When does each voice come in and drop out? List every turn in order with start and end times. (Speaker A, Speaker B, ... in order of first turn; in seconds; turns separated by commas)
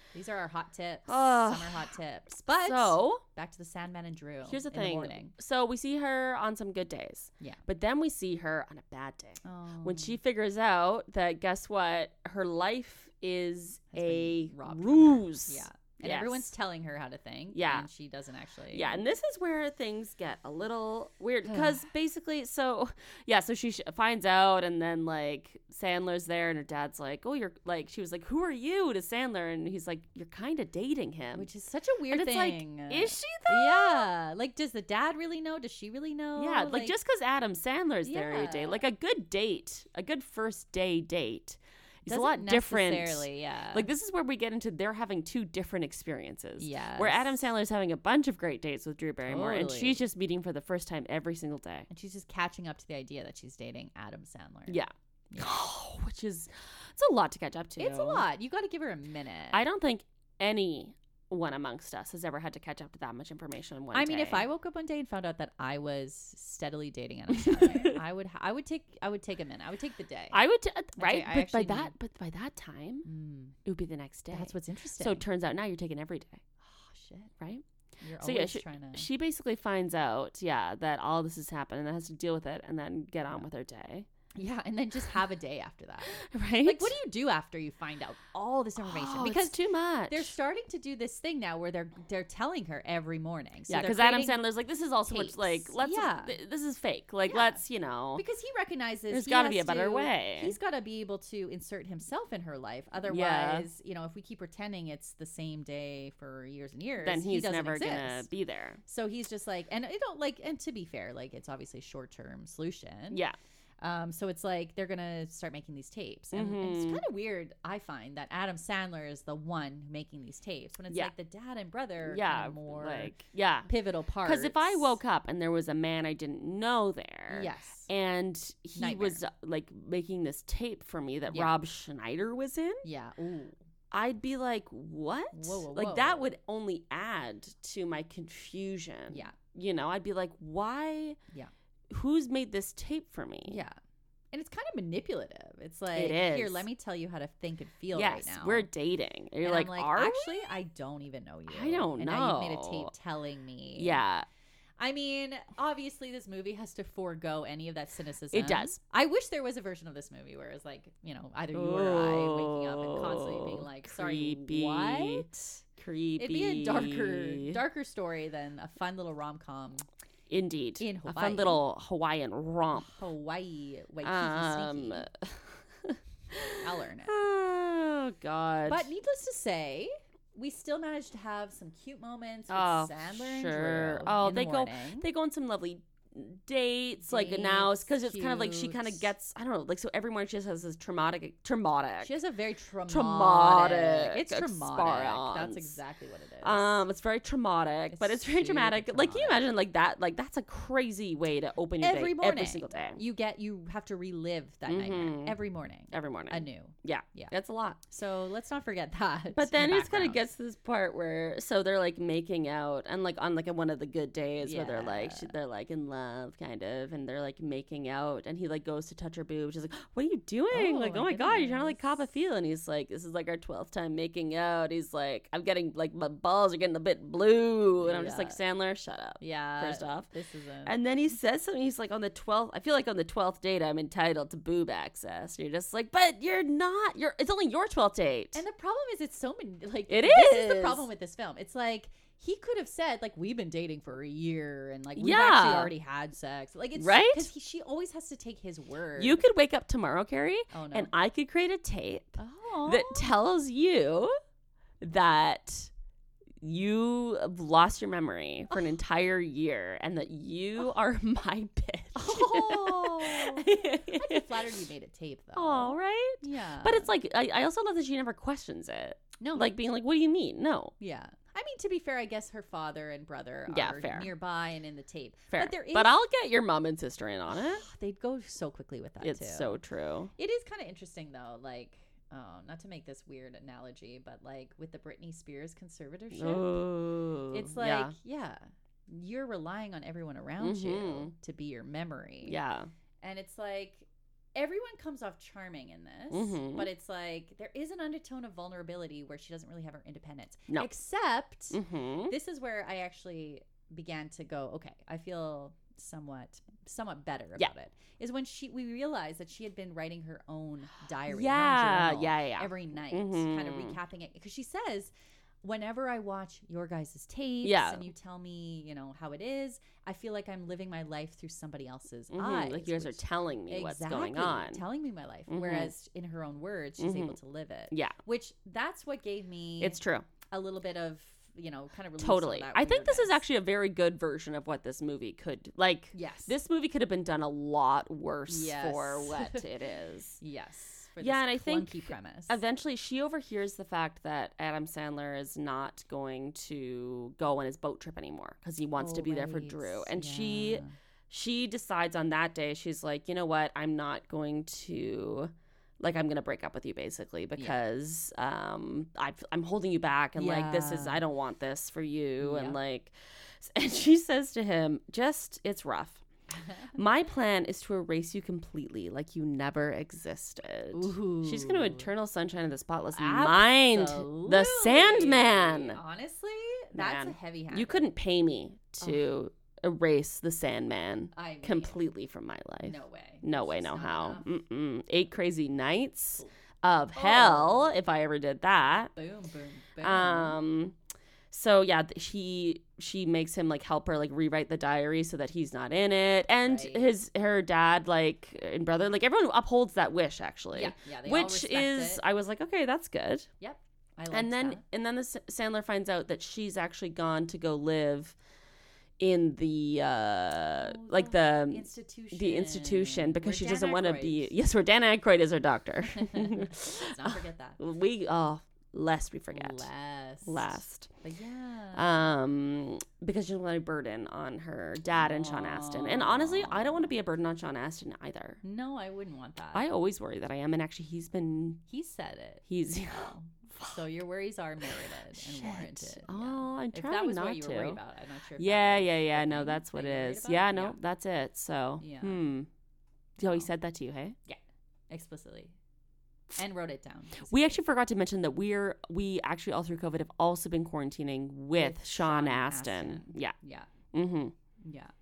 Speaker A: 0.1-5.3, Speaker B: 1.1-1.9, Speaker B: 2.6-3.2, Speaker B: 4.5-16.5, Speaker A: 9.4-10.2, Speaker A: 13.9-19.0, Speaker B: 17.5-17.9, Speaker B: 18.7-31.5, Speaker A: 21.4-21.8, Speaker A: 31.3-36.9, Speaker B: 32.1-34.1, Speaker B: 36.4-51.9, Speaker A: 38.0-38.8, Speaker A: 42.0-43.9, Speaker A: 46.6-47.3, Speaker A: 49.2-50.0, Speaker A: 51.9-54.8, Speaker B: 54.7-58.2, Speaker A: 55.3-55.6, Speaker A: 57.8-59.6, Speaker B: 59.5-64.5, Speaker A: 63.9-70.4, Speaker B: 67.4-68.0, Speaker B: 70.3-73.0, Speaker A: 71.0-71.9, Speaker A: 73.0-73.5, Speaker B: 73.6-76.4, Speaker A: 74.3-75.2, Speaker A: 76.6-77.3, Speaker A: 78.0-79.1, Speaker B: 78.2-84.1, Speaker A: 84.3-89.5, Speaker B: 86.2-86.9, Speaker B: 88.8-90.3, Speaker A: 90.1-94.4, Speaker B: 93.7-98.2, Speaker A: 95.1-96.3, Speaker A: 97.3-97.6, Speaker A: 98.2-108.3, Speaker B: 99.1-100.5, Speaker B: 103.1-103.7, Speaker B: 107.0-108.8, Speaker A: 108.9-113.2, Speaker B: 113.1-113.4, Speaker A: 113.8-123.1, Speaker B: 116.3-117.0, Speaker B: 122.0-123.7, Speaker A: 123.7-125.0, Speaker B: 124.2-132.8, Speaker A: 127.3-127.9, Speaker A: 128.7-129.2, Speaker A: 131.3-131.6, Speaker A: 132.8-133.6, Speaker B: 133.9-141.2, Speaker A: 135.3-136.3, Speaker A: 139.1-139.4, Speaker B: 141.9-143.6, Speaker A: 143.4-143.8, Speaker A: 144.3-148.7, Speaker B: 145.9-146.7, Speaker B: 147.9-150.4, Speaker A: 149.4-154.0, Speaker B: 151.5-152.9, Speaker B: 153.8-154.3, Speaker A: 154.8-165.6, Speaker B: 158.3-158.8, Speaker B: 161.5-165.3, Speaker B: 165.8-167.6, Speaker A: 166.2-169.9, Speaker B: 170.3-173.0, Speaker A: 170.8-171.6, Speaker A: 172.8-175.1, Speaker B: 174.0-178.9, Speaker A: 176.6-177.1, Speaker A: 178.7-185.1, Speaker B: 182.5-192.1, Speaker A: 187.1-189.1, Speaker A: 192.0-196.8, Speaker B: 192.9-195.8, Speaker B: 196.4-203.0, Speaker A: 197.9-199.4, Speaker A: 201.8-207.3, Speaker B: 204.7-205.4, Speaker B: 205.9-207.8, Speaker A: 207.9-210.2, Speaker B: 209.3-230.1, Speaker A: 214.4-215.3, Speaker A: 220.5-221.8, Speaker A: 227.8-228.4, Speaker A: 229.2-230.8, Speaker B: 230.6-238.4, Speaker A: 238.3-249.2, Speaker B: 239.9-240.8, Speaker B: 245.0-245.7, Speaker B: 246.8-247.3, Speaker B: 249.0-254.1, Speaker A: 250.5-250.9, Speaker A: 252.2-253.1, Speaker B: 254.8-255.7, Speaker B: 256.4-264.3, Speaker A: 258.5-258.8, Speaker A: 261.9-266.9, Speaker B: 265.4-270.7, Speaker A: 269.2-269.5, Speaker A: 270.8-276.0, Speaker B: 273.5-274.1, Speaker B: 275.3-277.7, Speaker A: 277.3-279.5, Speaker B: 279.0-280.1, Speaker A: 280.2-286.6, Speaker B: 286.1-287.9, Speaker A: 287.3-292.4, Speaker B: 290.4-291.1, Speaker B: 292.2-292.7, Speaker A: 293.0-314.9, Speaker B: 296.1-296.7, Speaker B: 301.5-302.1, Speaker B: 311.1-313.8, Speaker A: 315.4-333.2, Speaker B: 317.4-317.9, Speaker B: 322.1-324.6, Speaker B: 325.3-325.7, Speaker B: 326.8-327.2, Speaker B: 327.7-327.9, Speaker B: 329.6-330.1, Speaker B: 332.0-340.2, Speaker A: 335.9-336.3, Speaker A: 338.3-339.4, Speaker A: 340.2-342.4, Speaker B: 341.0-366.0, Speaker A: 348.8-350.7, Speaker A: 360.2-361.0, Speaker A: 362.2-362.6, Speaker A: 366.3-366.8, Speaker B: 366.7-375.8, Speaker A: 370.7-371.9, Speaker A: 372.9-377.9, Speaker B: 376.7-388.9, Speaker A: 378.8-379.1, Speaker A: 381.1-381.8, Speaker A: 382.6-384.3, Speaker A: 386.9-387.7, Speaker A: 388.9-390.4, Speaker B: 389.8-390.7, Speaker B: 391.3-403.3, Speaker A: 396.4-396.9, Speaker A: 400.5-402.0, Speaker A: 403.4-404.6, Speaker B: 404.1-408.2, Speaker B: 409.0-419.7, Speaker A: 410.6-414.3, Speaker A: 415.9-417.6, Speaker A: 419.3-421.9, Speaker B: 420.2-420.9, Speaker B: 421.7-428.4, Speaker A: 424.9-426.9, Speaker A: 428.4-429.6, Speaker B: 429.5-431.6, Speaker A: 431.7-440.8, Speaker B: 432.5-433.7, Speaker B: 434.7-437.8, Speaker B: 438.4-442.5, Speaker A: 441.8-442.2, Speaker B: 443.2-444.2, Speaker A: 443.2-443.5, Speaker A: 444.3-445.5, Speaker A: 446.4-447.6, Speaker B: 447.3-453.4, Speaker A: 451.5-453.7, Speaker B: 453.9-454.3, Speaker A: 454.6-454.9